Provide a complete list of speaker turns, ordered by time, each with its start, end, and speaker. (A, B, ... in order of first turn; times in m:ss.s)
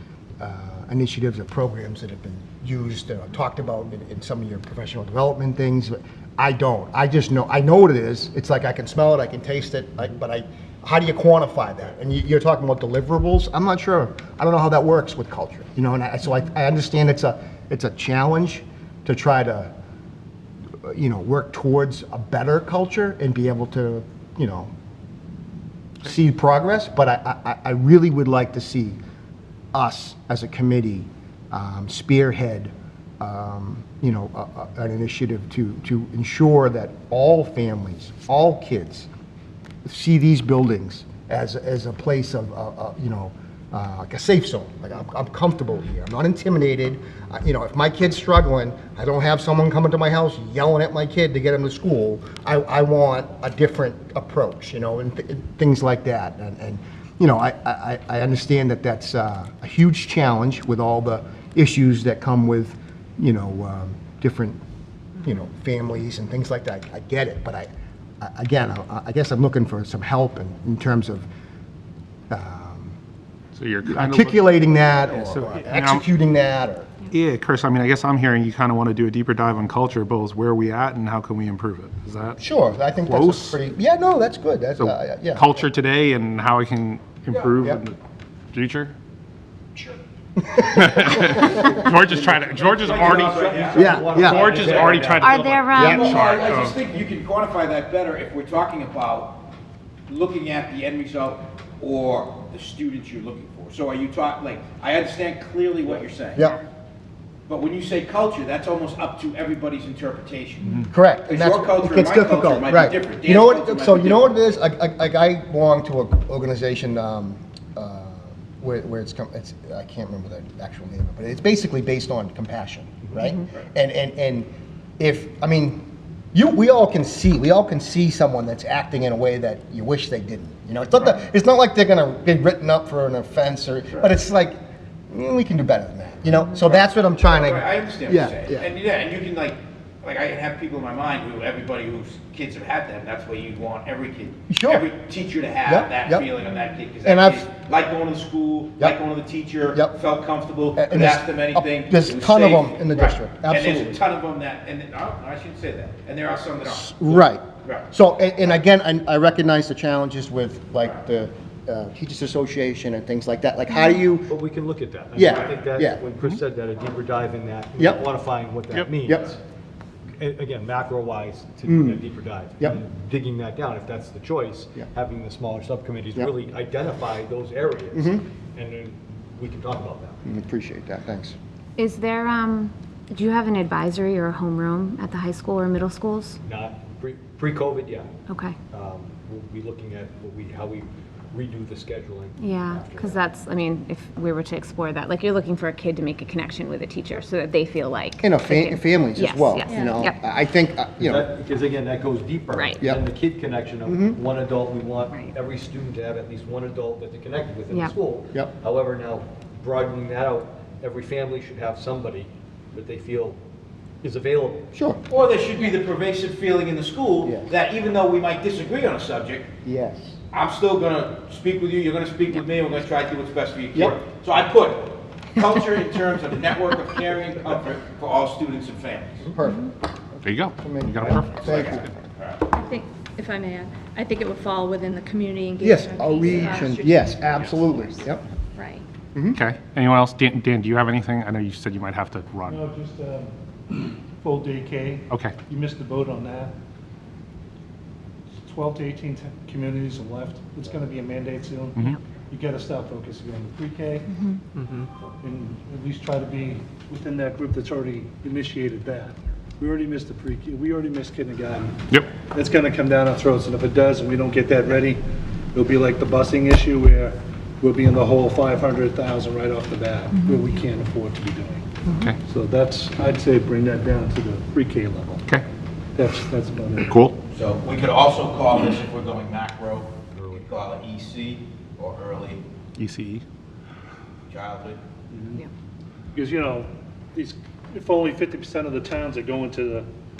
0:00.4-0:19.7 A
0:20.8-0:24.7 A
0:26.0-0:29.0 A
0:29.7-0:39.1 A
0:39.9-1:04.6 A
1:05.2-1:07.7 A
1:08.2-1:11.3 A
1:12.3-1:13.0 A
1:13.5-1:16.0 B
1:13.8-1:16.9 A
1:17.1-1:23.6 B
1:22.4-1:25.6 A
1:24.8-1:28.0 B
1:28.5-1:28.9 B
1:30.4-1:31.7 A
1:30.6-1:36.8 B
1:31.3-1:35.7 C
1:32.8-1:35.0 D
1:33.7-1:34.5 A
1:35.2-1:36.0 E
1:35.7-1:36.3 A
1:35.8-1:39.5 D
1:40.1-1:46.5 D
1:47.5-1:54.5 D
1:50.9-2:14.6 A
2:15.1-2:18.6 A
2:16.6-2:37.9 D
2:24.5-2:24.9 A
2:25.6-2:26.3 A
2:27.0-2:27.5 A
2:30.8-2:34.0 A
2:36.6-2:44.3 A
2:44.3-2:49.4 C
2:45.2-2:46.0 A
2:47.8-2:48.0 A
2:49.0-2:49.3 A
2:50.2-3:00.2 C
2:51.7-2:52.0 A
2:57.9-2:58.2 A
3:00.2-3:01.4 A
3:01.8-3:06.4 E
3:06.4-3:08.2 C
3:08.3-3:08.6 E
3:08.7-3:13.2 C
3:12.4-3:20.2 E
3:18.2-3:21.2 A
3:19.6-3:20.0 F
3:21.0-3:33.4 C
3:22.5-3:22.8 E
3:22.8-3:23.1 A
3:23.8-3:24.2 A
3:34.0-3:34.7 C
3:34.7-3:35.0 A
3:35.1-3:39.5 D
3:39.6-3:40.2 A
3:40.3-3:49.2 D
3:49.2-3:51.9 A
3:50.2-3:51.9 B
3:51.4-3:52.4 D
3:52.5-3:58.8 F
3:55.6-3:58.2 A
3:59.3-4:02.6 B
4:02.5-4:06.5 G
4:05.1-4:05.3 B
4:08.5-4:25.0 G
4:14.1-4:14.4 E
4:25.5-4:31.7 G
4:30.1-4:30.5 E
4:32.2-4:35.2 G
4:36.0-4:36.9 G
4:36.8-4:37.2 B
4:37.3-4:42.4 D
4:40.1-4:40.4 C
4:42.8-4:43.2 B
4:44.3-4:44.8 D
4:45.1-4:45.4 G
4:46.1-4:49.9 G